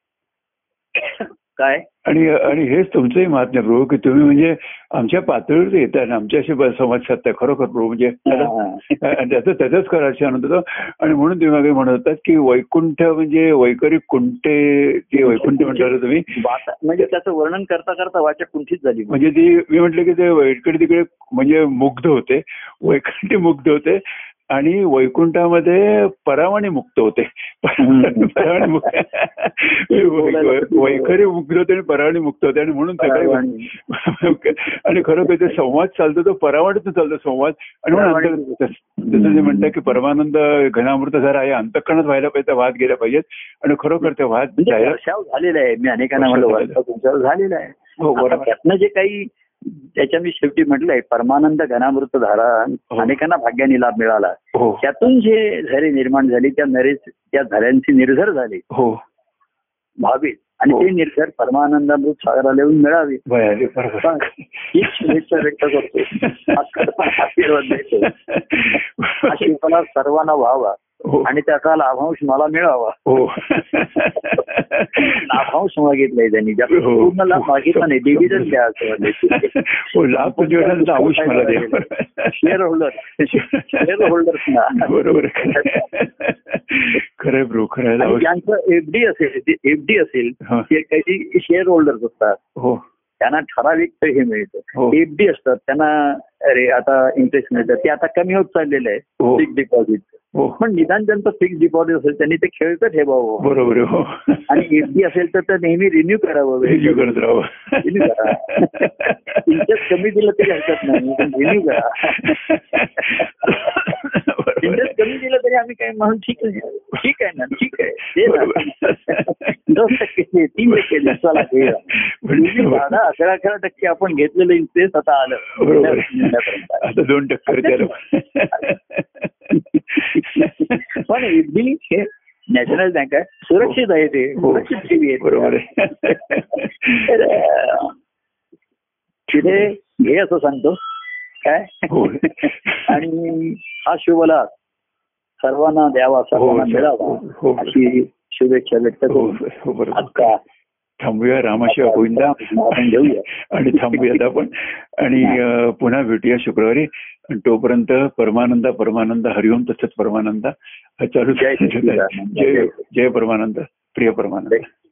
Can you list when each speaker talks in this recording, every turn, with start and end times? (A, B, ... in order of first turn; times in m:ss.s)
0:01.0-0:01.9 A
0:02.0-0:16.4 B
0:08.2-0:09.0 A
0:15.2-0:19.2 A
0:19.1-0:45.0 B
0:27.8-0:28.9 A
0:29.9-0:31.2 A
0:33.0-0:33.7 A
0:37.9-0:39.7 A
0:44.6-0:58.6 A
0:46.2-0:46.8 B
0:48.0-0:48.5 B
0:52.9-0:53.2 B
0:54.5-0:54.8 B
0:58.7-0:59.0 B
1:00.0-1:03.2 A
1:03.3-1:09.6 B
1:04.0-1:08.1 A
1:08.7-1:13.0 A
1:11.0-1:11.3 B
1:13.0-1:15.5 B
1:14.9-1:25.9 A
1:16.7-1:22.5 B
1:23.2-1:24.1 B
1:24.7-1:28.3 B
1:28.0-1:32.4 A
1:32.6-1:32.8 B
1:33.2-1:43.7 A
1:39.2-1:39.5 B
1:40.3-1:40.6 B
1:43.4-1:44.9 B
1:44.5-1:47.2 A
1:46.6-1:49.9 B
1:47.8-1:53.8 A
1:50.4-1:55.1 B
1:54.6-2:06.8 A
1:58.2-2:00.0 B
2:00.7-2:03.0 B
2:05.5-2:11.0 B
2:07.5-2:07.9 A
2:10.0-2:17.9 A
2:14.3-2:17.1 B
2:19.3-2:19.7 B
2:19.3-2:20.8 A
2:21.4-2:24.5 A
2:21.9-2:23.0 B
2:25.4-2:29.4 A
2:26.3-2:27.8 B
2:29.1-2:30.3 B
2:29.9-2:30.4 A
2:31.0-2:44.6 B
2:31.6-2:33.2 A
2:33.8-2:34.2 A
2:41.4-2:42.8 A